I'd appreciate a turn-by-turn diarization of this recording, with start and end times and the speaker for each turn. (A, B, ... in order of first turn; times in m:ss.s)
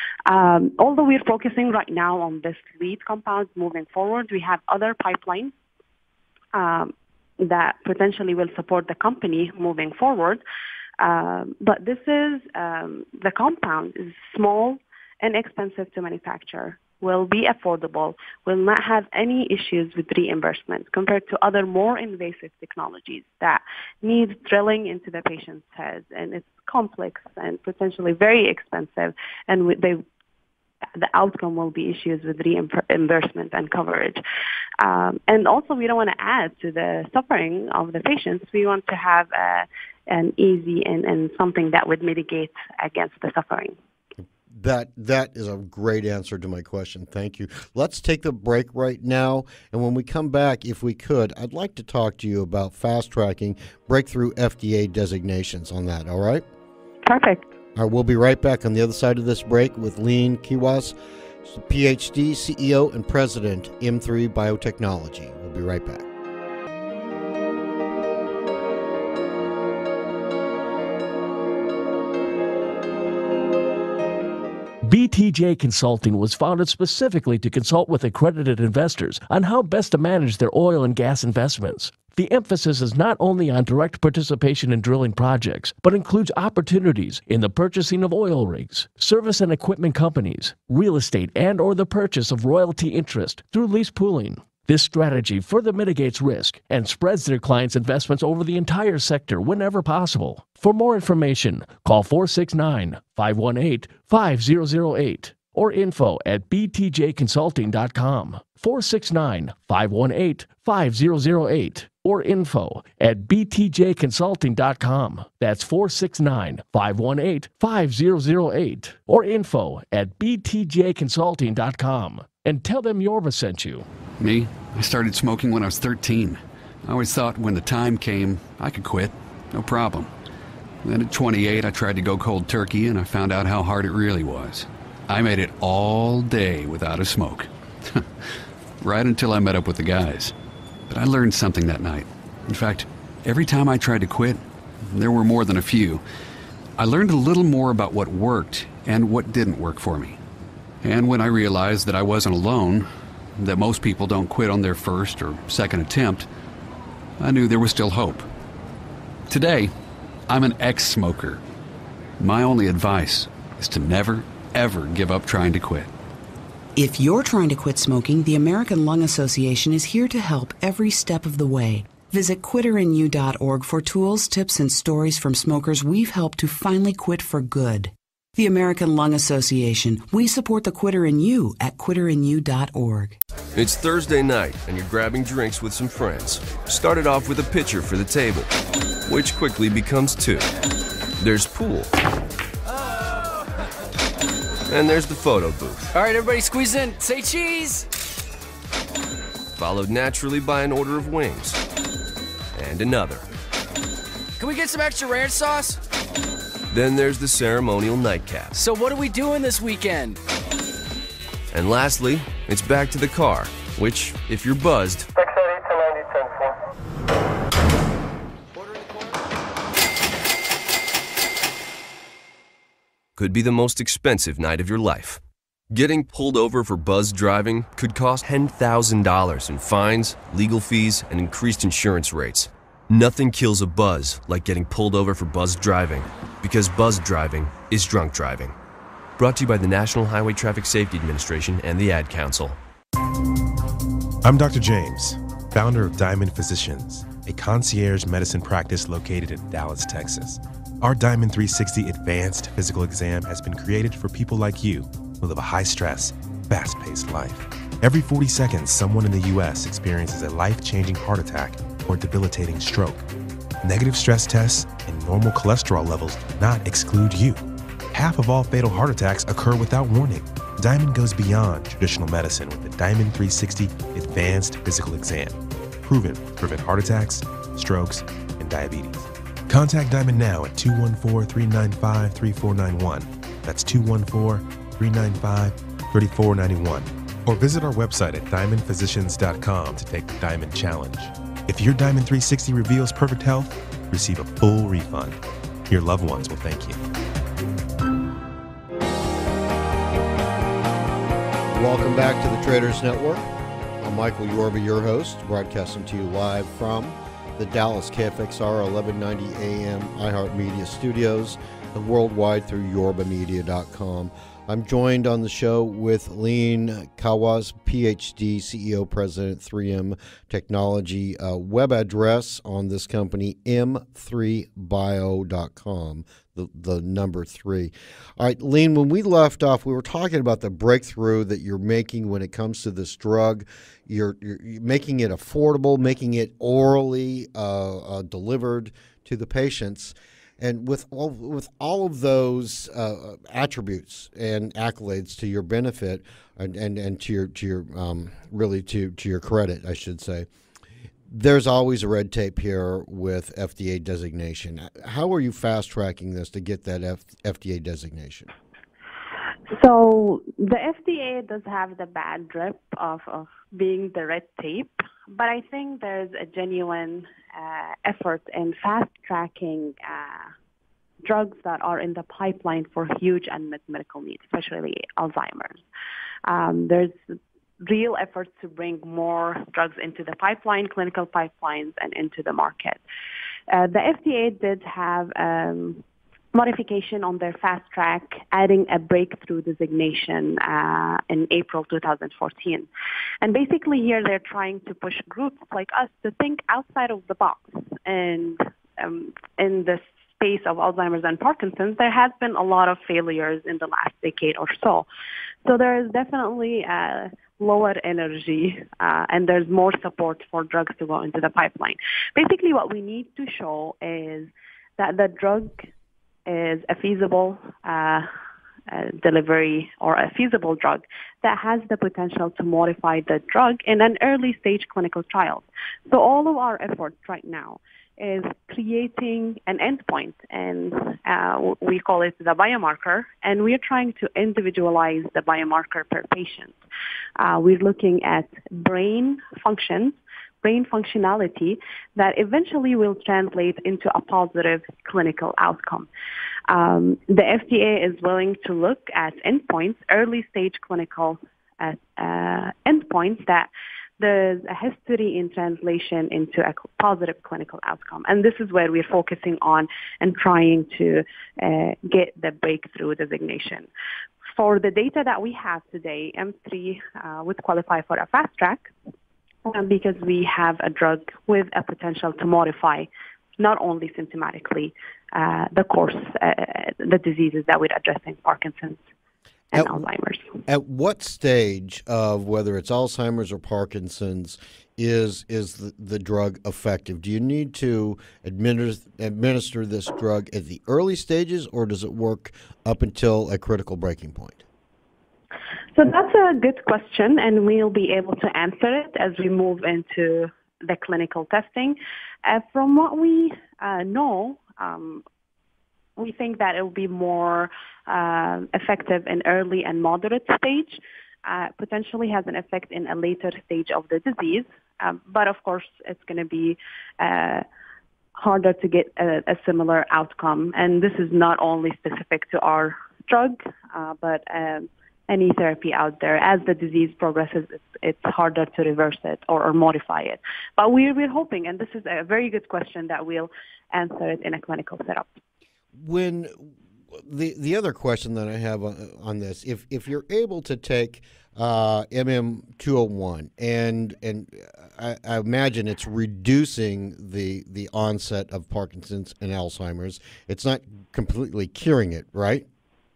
0:00.3-0:05.5 A
0:06.5-0:10.4 A
0:11.0-0:30.0 A
0:30.9-0:34.2 A
0:34.8-0:43.8 A
0:44.5-0:56.4 B
0:57.0-0:57.5 A
0:57.8-1:00.9 B
1:01.4-1:06.1 B
1:14.8-2:03.9 C
2:04.2-2:10.1 D
2:10.8-2:18.3 D
2:18.8-2:20.3 D
2:20.9-2:26.0 D
2:26.8-2:30.2 D
2:30.8-2:36.3 D
2:37.2-2:38.3 D
2:39.3-2:39.7 D
2:40.3-2:41.4 D
2:42.2-2:45.9 D
2:46.8-3:03.2 E
3:03.6-3:08.5 F
3:09.1-3:10.5 F
3:11.2-3:11.9 F
3:14.7-3:15.9 F
3:15.9-3:17.9 G
3:19.6-3:21.6 F
3:22.5-3:23.3 F
3:24.4-3:25.8 G
3:26.7-3:28.6 F
3:28.6-3:30.2 G
3:31.5-3:35.3 F
3:43.2-3:58.6 F
3:59.2-4:02.6 F
4:04.2-4:23.0 H
4:23.6-4:55.2 H
4:55.7-4:56.8 H
5:01.5-5:03.3 B
5:03.8-5:50.3 B
5:51.1-5:58.3 B
5:59.5-6:10.3 A
6:11.0-6:15.6 A
6:16.3-6:22.8 A
6:23.5-6:32.7 A
6:33.2-6:44.9 A
6:45.4-6:55.7 A
6:56.3-6:58.1 A
6:58.7-7:16.6 A
7:17.2-7:25.9 A
7:26.5-7:43.7 A
7:44.4-7:48.7 A
7:49.4-7:58.8 A
7:59.5-8:00.4 A
7:59.5-7:59.8 B
8:00.5-8:14.4 B
8:15.8-8:25.0 A
8:26.0-8:37.4 A
8:38.2-8:55.2 A
8:55.8-9:12.5 B